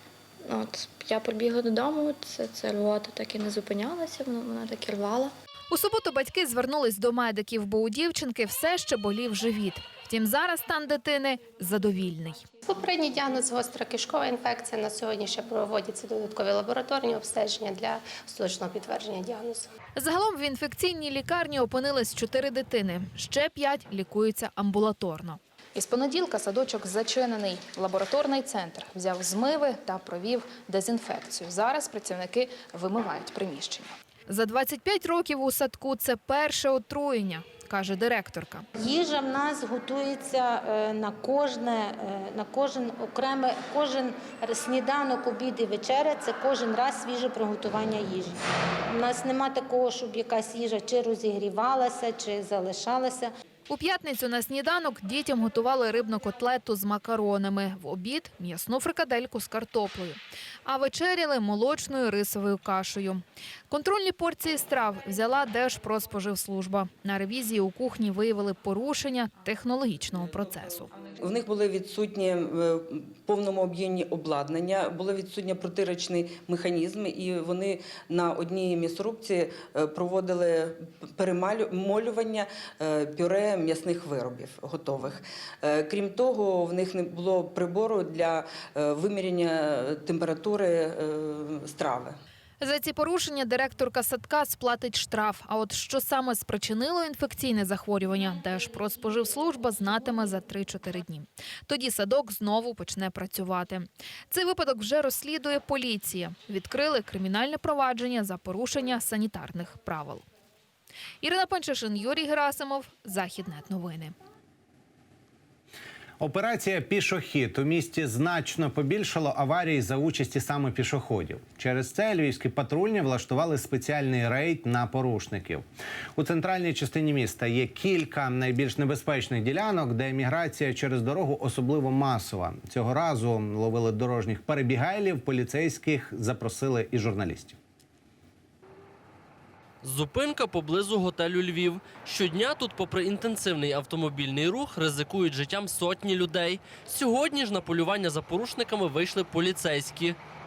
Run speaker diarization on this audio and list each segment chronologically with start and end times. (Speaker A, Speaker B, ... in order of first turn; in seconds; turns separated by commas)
Speaker A: 0.5-5.3, Speaker B: 5.7-12.5, Speaker C: 12.6-19.7, Speaker B: 20.0-25.4, Speaker D: 25.8-34.0, Speaker B: 34.3-38.7, Speaker E: 38.8-53.3, Speaker B: 53.7-70.9, Speaker F: 71.2-92.2, Speaker B: 92.6-110.2, Speaker B: 111.2-114.2, Speaker G: 116.2-125.7, Speaker G: 126.2-137.6, Speaker H: 139.8-150.2